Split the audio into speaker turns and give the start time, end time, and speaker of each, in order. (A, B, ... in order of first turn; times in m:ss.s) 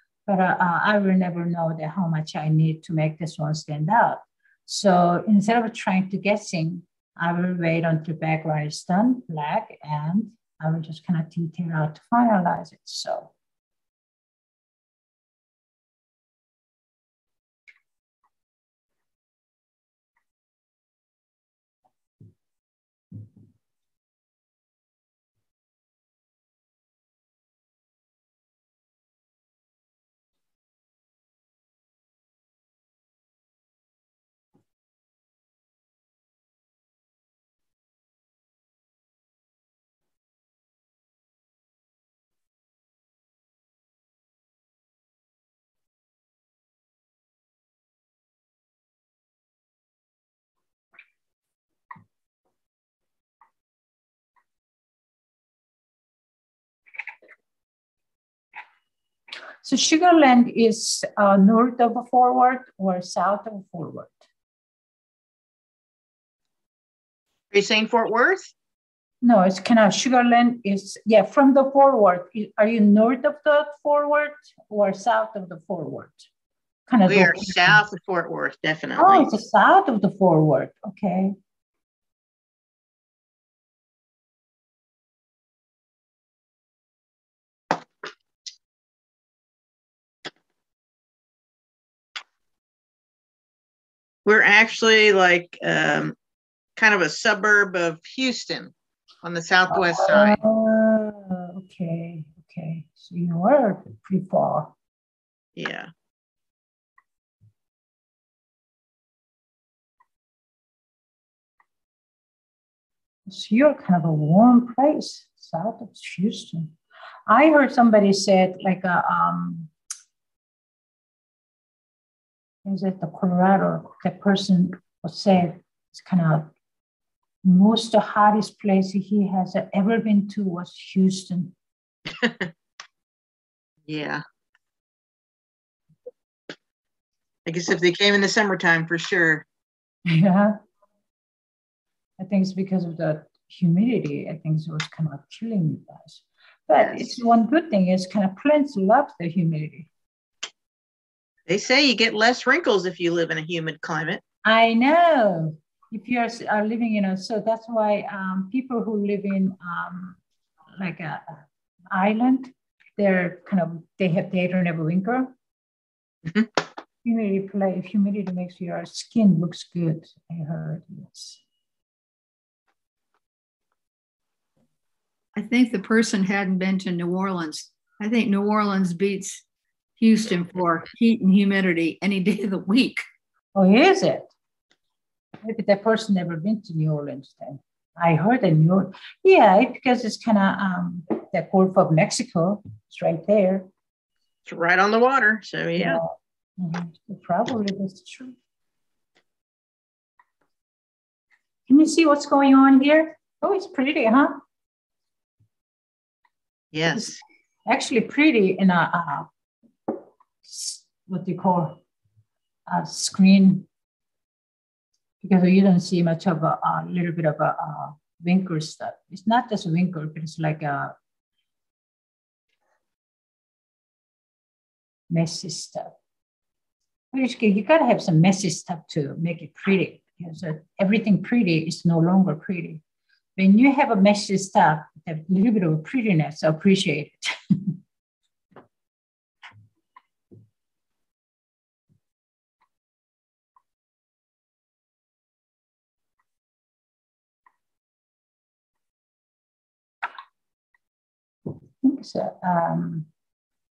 0:00.3-0:13.3 A
0:59.6-1:04.2 A
1:07.5-1:08.5 B
1:09.2-1:16.3 A
1:16.9-1:17.8 A
1:17.1-1:19.3 B
1:19.0-1:21.4 A
1:34.2-1:36.2 B
1:36.8-1:40.4 B
1:39.7-1:44.7 A
1:45.6-1:45.9 B
1:53.3-1:56.8 A
1:57.3-1:59.7 A
2:02.6-2:06.5 A
2:07.4-2:11.5 A
2:12.2-2:12.5 B
2:13.9-2:14.2 B
2:17.5-2:19.4 B
2:20.1-2:20.6 A
2:22.2-2:29.9 A
2:26.8-2:27.1 B
2:31.5-2:34.2 B
2:34.4-2:40.2 A
2:40.8-2:41.4 A
2:41.9-2:45.3 A
2:47.0-2:51.4 A
2:55.4-2:59.4 C
3:00.0-3:03.0 C
3:03.6-3:04.3 A
3:05.4-3:13.7 A
3:14.5-3:16.0 B
3:15.8-3:18.4 A
3:21.7-3:24.4 A
3:26.7-3:27.2 B
3:27.7-3:29.3 A
3:30.4-3:31.8 A
3:32.7-3:33.7 A
3:35.2-3:41.0 A
3:45.1-3:45.9 A
3:47.1-3:52.8 A
3:53.4-3:57.7 A
4:11.8-4:13.1 A